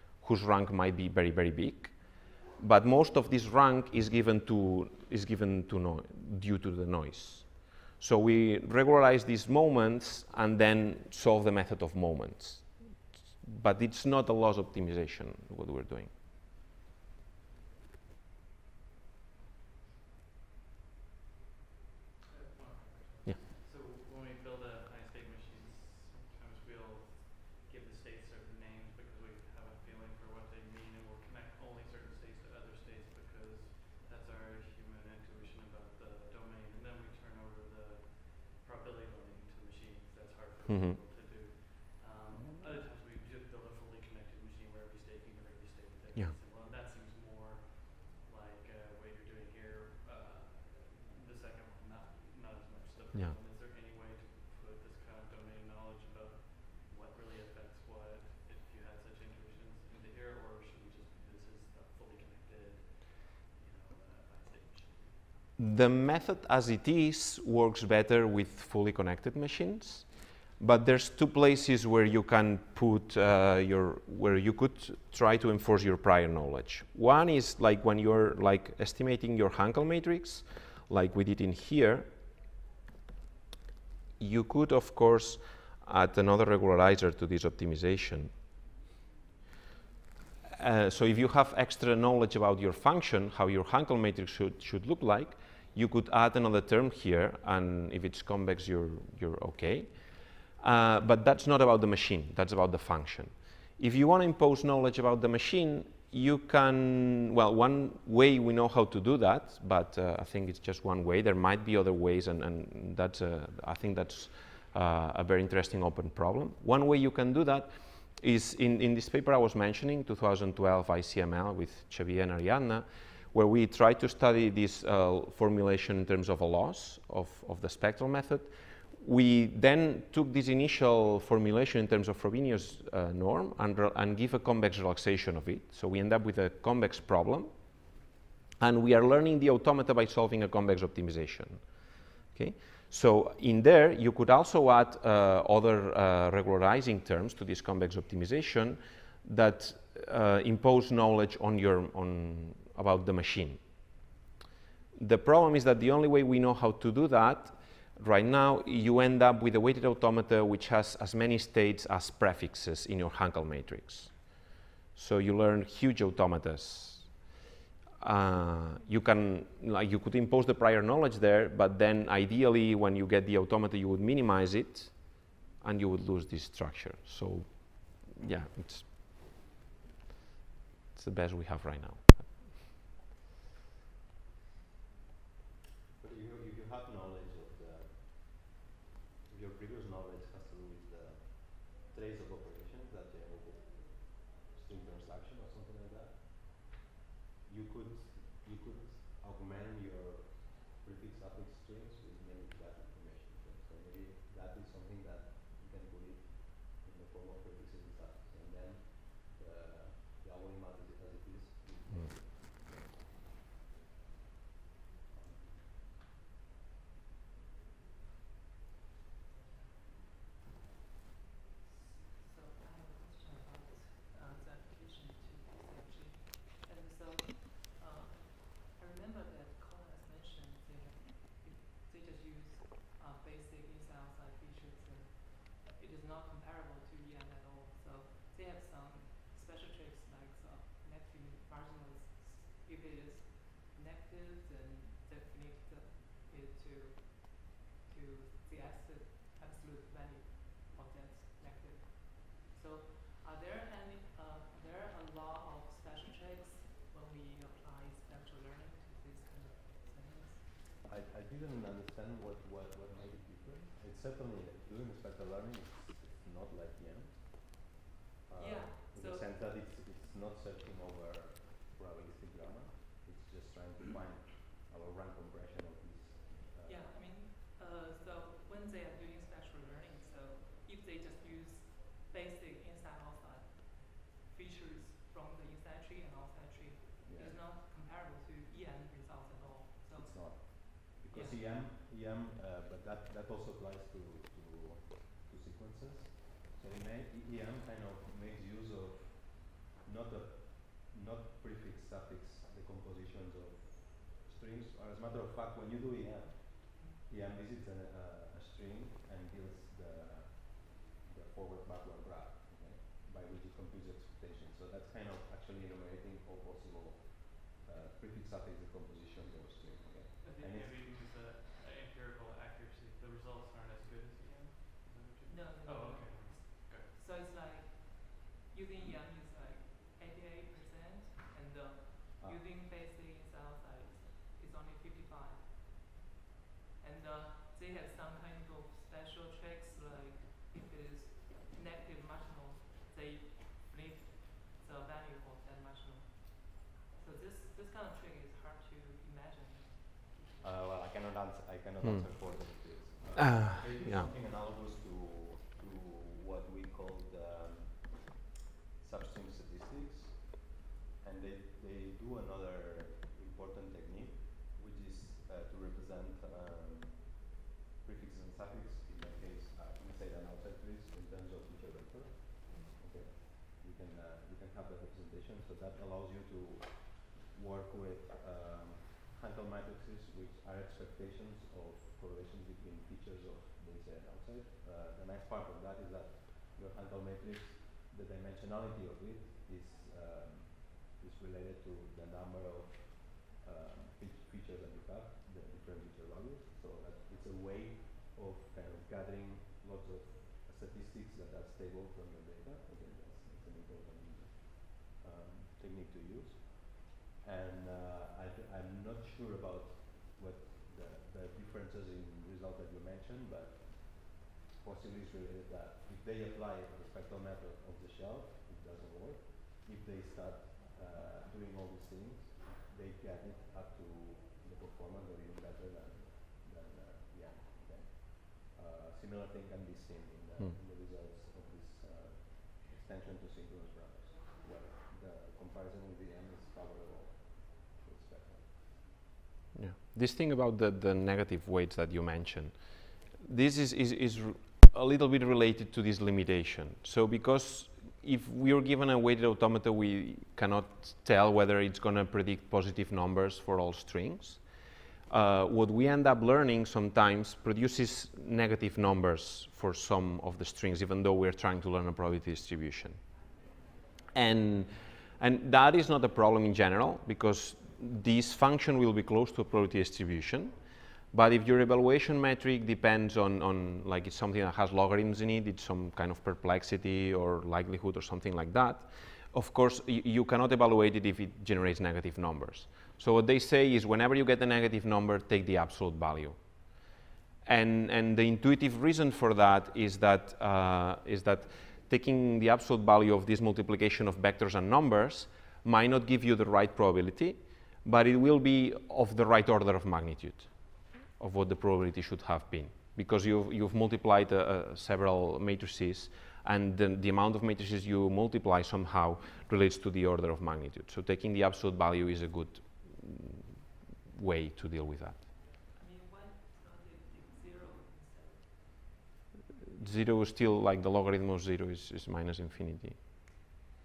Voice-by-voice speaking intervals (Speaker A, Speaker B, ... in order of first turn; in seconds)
Speaker A: 0.2-16.1, 40.7-41.0, 65.6-82.1, 84.2-88.3, 90.6-138.0, 138.6-154.1, 154.9-167.3, 168.0-179.1, 180.9-182.4, 351.8-354.1, 439.6-463.3, 464.1-486.9, 487.4-515.2, 519.8-523.0
Speaker B: 22.2-65.4, 320.2-327.0
Speaker C: 42.3-42.9, 186.0-188.6, 189.3-196.7, 197.4-212.9, 215.1-215.6, 260.8-267.7, 268.3-277.1, 287.0-287.4, 289.9-320.9, 350.4-358.2, 358.8-438.6
Speaker D: 221.6-260.7, 268.4-269.3, 276.6-291.5, 325.2-335.9, 336.8-350.4, 372.5-372.8, 515.5-518.7